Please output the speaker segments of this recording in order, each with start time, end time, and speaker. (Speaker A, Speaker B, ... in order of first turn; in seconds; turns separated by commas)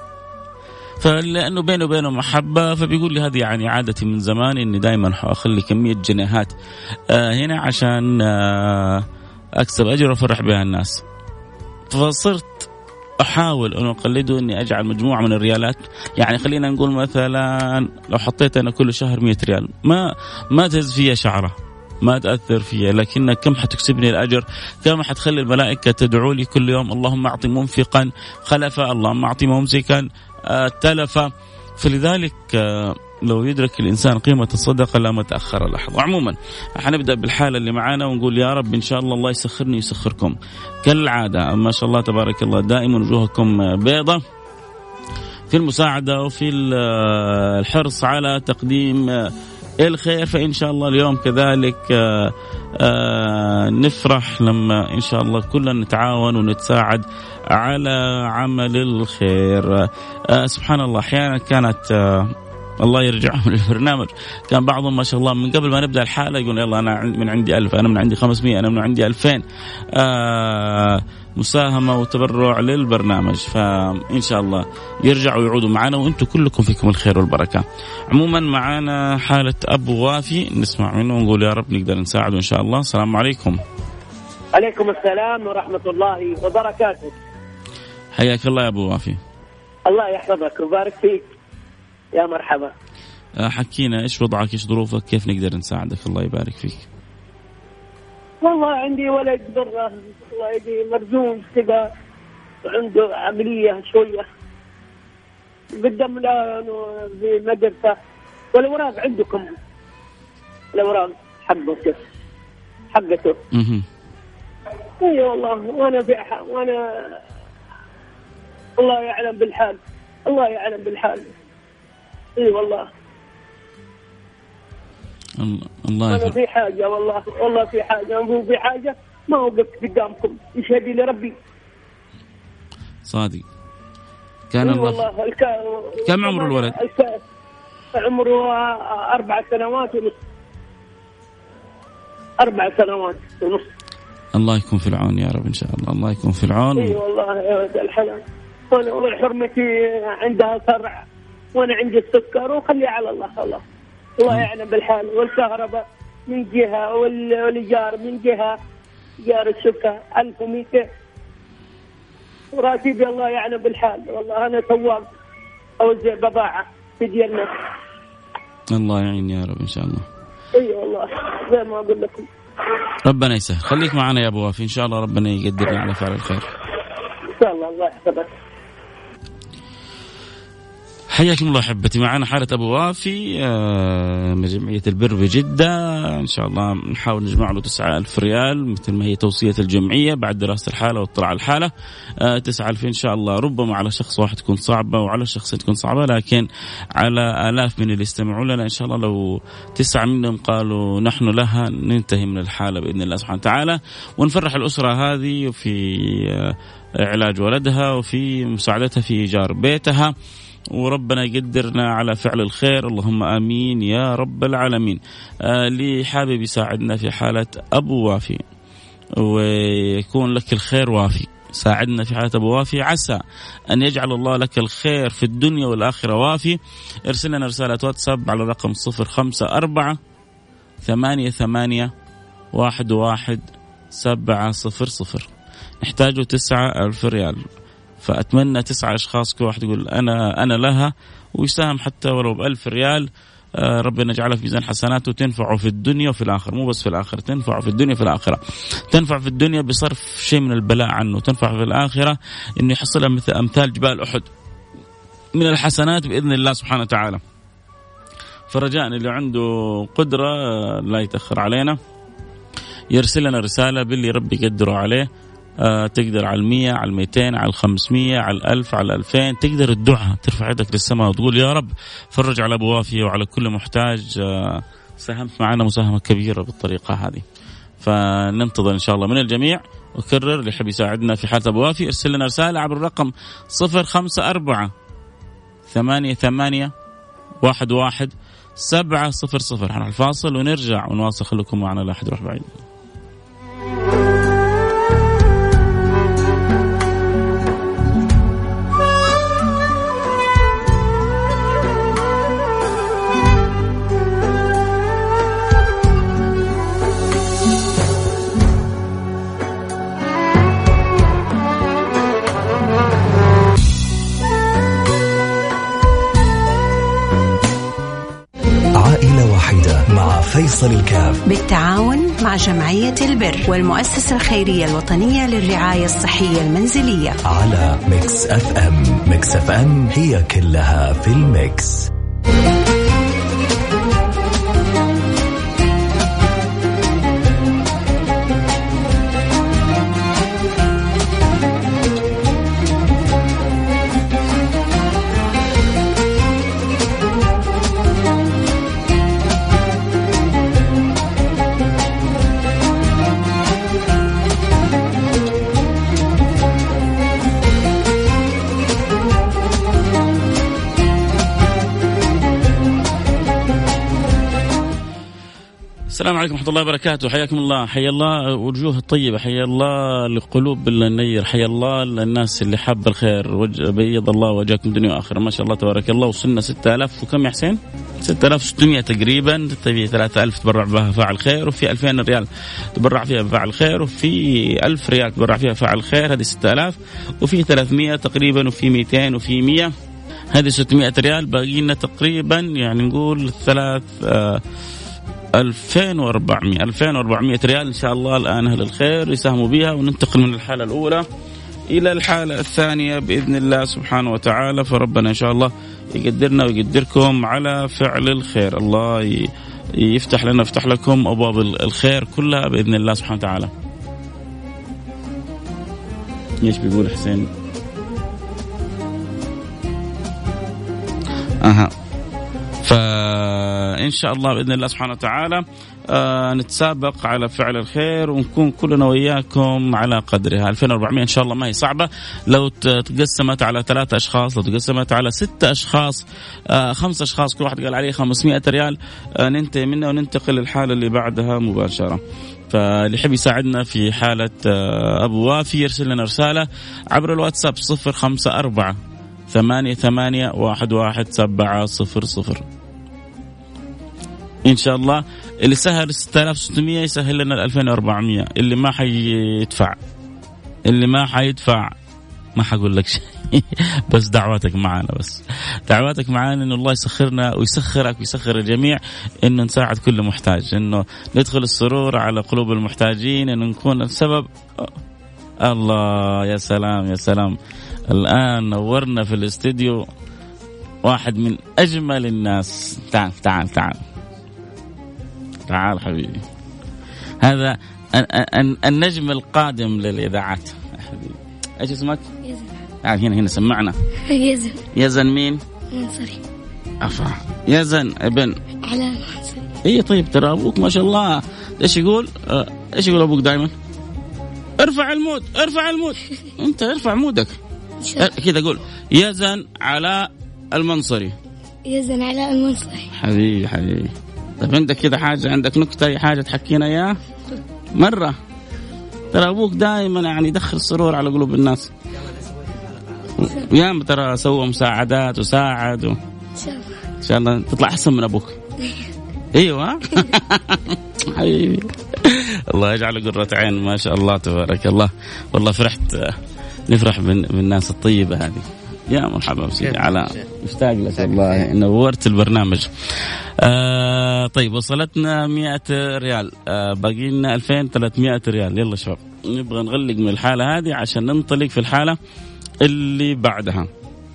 Speaker A: 1.0-6.5, Speaker A: 7.1-9.1, Speaker A: 9.6-11.0, Speaker A: 11.9-12.7, Speaker A: 13.2-44.2, Speaker A: 45.5-83.6, Speaker B: 84.5-87.1, Speaker A: 88.1-89.2, Speaker B: 89.8-91.2, Speaker B: 92.1-92.7, Speaker A: 93.4-96.9, Speaker B: 98.4-101.9, Speaker B: 102.6-104.2, Speaker B: 105.8-107.9, Speaker B: 108.5-109.5, Speaker B: 110.7-112.0, Speaker B: 112.9-113.4, Speaker A: 113.5-113.9, Speaker B: 115.0-116.8, Speaker B: 118.8-121.3, Speaker B: 122.4-122.9, Speaker A: 125.4-126.3, Speaker B: 126.1-131.3, Speaker A: 133.1-133.4, Speaker A: 134.5-135.1, Speaker B: 134.6-137.2, Speaker A: 136.1-136.8, Speaker B: 137.9-140.2, Speaker B: 142.4-143.7, Speaker A: 144.4-147.0, Speaker B: 146.8-153.6, Speaker B: 154.2-158.6, Speaker B: 159.2-160.8, Speaker B: 162.5-165.1, Speaker B: 165.8-167.5, Speaker A: 168.7-170.1, Speaker B: 170.6-172.3, Speaker A: 173.1-176.5, Speaker B: 177.4-178.3, Speaker A: 181.1-191.7, Speaker A: 192.2-210.1, Speaker A: 210.8-218.4, Speaker A: 219.2-230.0, Speaker A: 230.8-231.9, Speaker A: 232.5-235.3, Speaker A: 235.8-237.4, Speaker A: 238.0-243.1, Speaker A: 243.6-248.4, Speaker A: 248.9-254.3, Speaker A: 255.3-257.2, Speaker A: 258.5-261.8, Speaker A: 262.9-265.1, Speaker A: 265.6-277.2, Speaker A: 277.8-284.7, Speaker A: 285.7-286.7, Speaker A: 287.4-292.6, Speaker C: 318.8-321.2, Speaker D: 321.3-327.2, Speaker C: 327.2-331.9, Speaker A: 365.9-389.7, Speaker A: 390.3-394.4, Speaker A: 395.4-401.0, Speaker A: 401.7-413.5, Speaker A: 416.4-417.3, Speaker A: 421.4-421.7, Speaker A: 422.6-448.8, Speaker A: 449.3-452.4, Speaker A: 454.5-459.8, Speaker A: 460.7-461.7, Speaker A: 462.4-474.7, Speaker A: 475.4-477.4, Speaker A: 477.9-479.9, Speaker A: 480.9-483.8, Speaker A: 485.5-486.2, Speaker A: 487.2-492.1, Speaker E: 492.2-492.7, Speaker A: 492.8-493.8, Speaker E: 494.1-494.6, Speaker A: 494.7-495.4, Speaker E: 495.7-496.2, Speaker A: 496.8-498.4, Speaker E: 498.6-499.5, Speaker A: 499.6-503.5, Speaker A: 504.6-507.4, Speaker E: 507.8-508.1, Speaker A: 508.0-511.1, Speaker E: 511.6-512.9, Speaker A: 513.0-517.0, Speaker A: 517.8-518.1, Speaker A: 519.1-521.7, Speaker A: 523.1-526.0, Speaker E: 526.4-526.9, Speaker A: 527.0-528.4, Speaker A: 529.3-536.2, Speaker A: 536.7-552.0, Speaker A: 552.6-553.7